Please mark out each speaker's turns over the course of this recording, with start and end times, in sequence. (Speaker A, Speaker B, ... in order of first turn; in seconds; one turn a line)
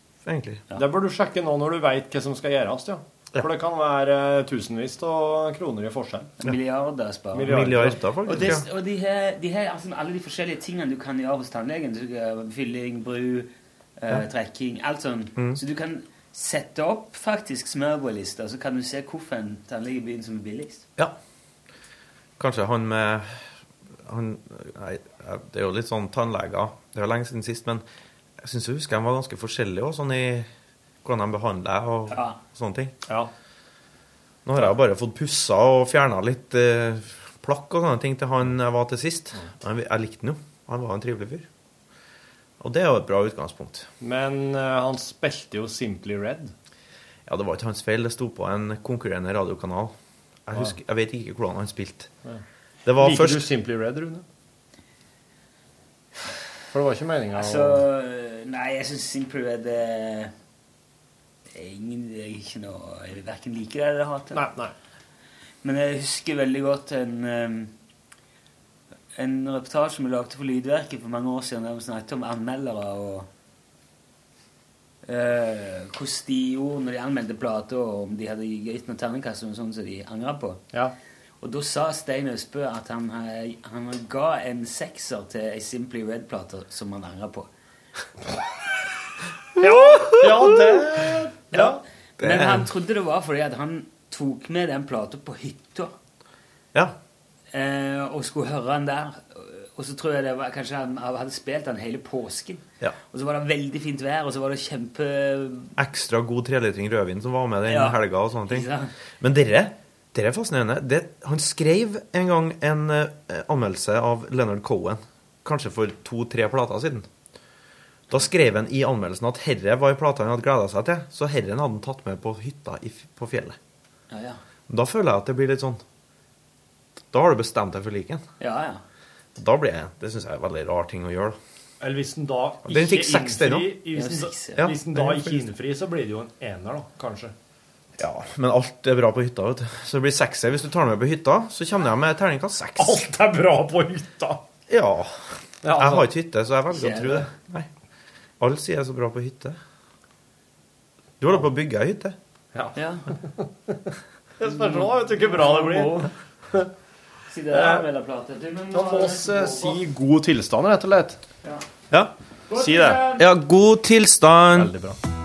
Speaker A: 0.2-0.6
Speaker B: 0.7-6.3
Speaker C: 6.4-7.7
Speaker B: 7.3-8.5
Speaker A: 7.4-8.7
Speaker C: 8.2-20.8
Speaker A: 15.3-15.6
Speaker A: 22.4-23.4
Speaker A: 24.1-27.8
Speaker A: 28.4-30.5
Speaker A: 31.0-33.0
Speaker C: 32.1-32.4
Speaker A: 34.4-41.5
Speaker A: 42.6-43.9
Speaker B: 44.0-46.5
Speaker A: 47.3-49.9
Speaker A: 50.5-52.1
Speaker A: 52.8-53.5
Speaker B: 53.0-54.2
Speaker B: 56.7-57.9
Speaker C: 57.3-60.3
Speaker C: 61.5-64.4
Speaker B: 64.3-64.7
Speaker C: 65.6-67.7
Speaker C: 69.1-73.3
Speaker C: 75.0-80.6
Speaker C: 81.4-87.5
Speaker A: 89.6-90.8
Speaker B: 89.6-91.8
Speaker C: 91.5-96.0
Speaker A: 92.2-92.7
Speaker C: 97.5-105.7
Speaker A: 105.8-108.7
Speaker C: 107.7-108.9
Speaker A: 109.2-117.1
Speaker A: 118.1-123.6
Speaker C: 124.1-124.4
Speaker A: 124.7-125.8
Speaker A: 127.1-128.2
Speaker C: 128.4-128.8
Speaker A: 129.3-131.4
Speaker B: 131.8-137.3
Speaker A: 132.6-133.8
Speaker C: 133.9-134.7
Speaker A: 134.6-135.4
Speaker A: 138.0-143.0
Speaker B: 142.8-144.4
Speaker A: 144.7-145.2
Speaker B: 145.6-146.1
Speaker A: 145.7-147.7
Speaker C: 146.7-147.3
Speaker A: 148.4-149.6
Speaker A: 151.2-152.2
Speaker B: 152.5-153.9
Speaker C: 152.8-153.1
Speaker B: 154.4-156.7
Speaker C: 154.4-156.1
Speaker C: 157.3-159.8
Speaker B: 157.5-157.8
Speaker B: 158.7-161.2
Speaker C: 162.5-163.3
Speaker B: 162.5-163.0
Speaker A: 163.1-164.7
Speaker B: 164.5-165.0